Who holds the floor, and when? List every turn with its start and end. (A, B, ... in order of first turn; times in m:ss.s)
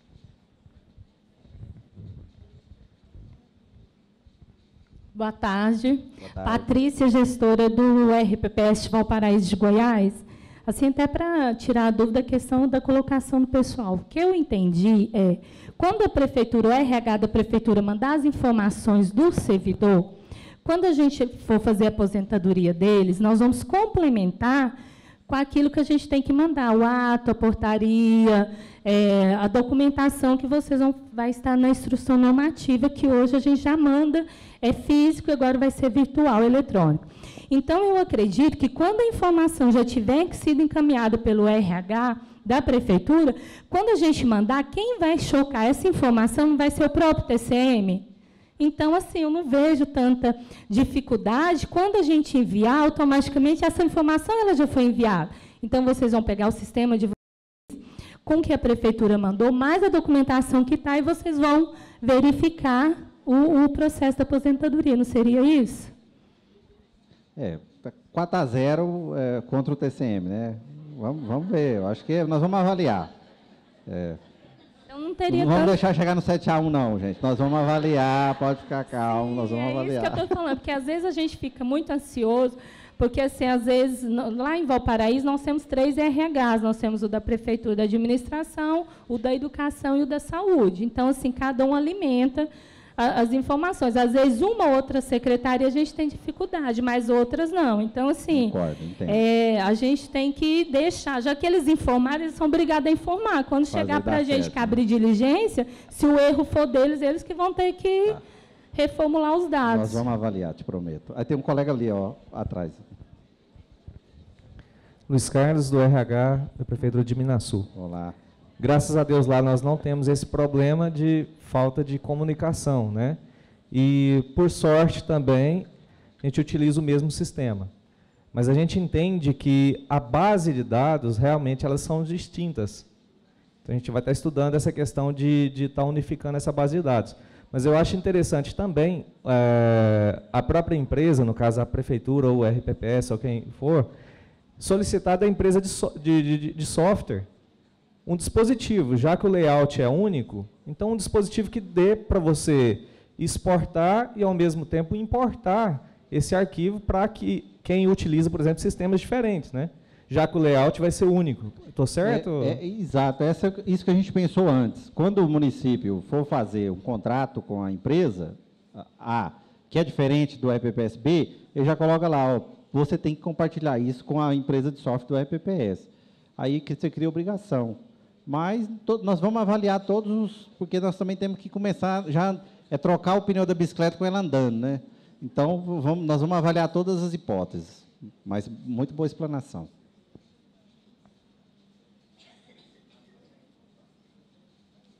0:05.1-0:24.8 A
0:06.2-0:06.7 B
0:25.3-0:48.1 A
0:48.6-0:57.1 A
0:57.7-1:05.9 A
1:07.4-1:13.1 B
1:13.9-1:14.2 B
1:14.9-1:15.8 A
1:15.3-1:20.3 B
1:19.0-1:38.5 A
1:38.3-1:39.2 B
1:39.0-1:48.2 A
1:43.7-1:44.8 B
1:48.7-1:50.0 A
1:49.6-1:52.8 B
1:55.1-1:57.7 C
1:57.7-1:58.1 B
1:58.6-2:03.2 C
2:03.7-2:05.7 C
2:06.2-2:07.7 C
2:08.3-2:12.9 C
2:13.6-2:23.9 C
2:24.6-2:27.3 C
2:28.0-2:42.6 C
2:42.0-3:09.7 B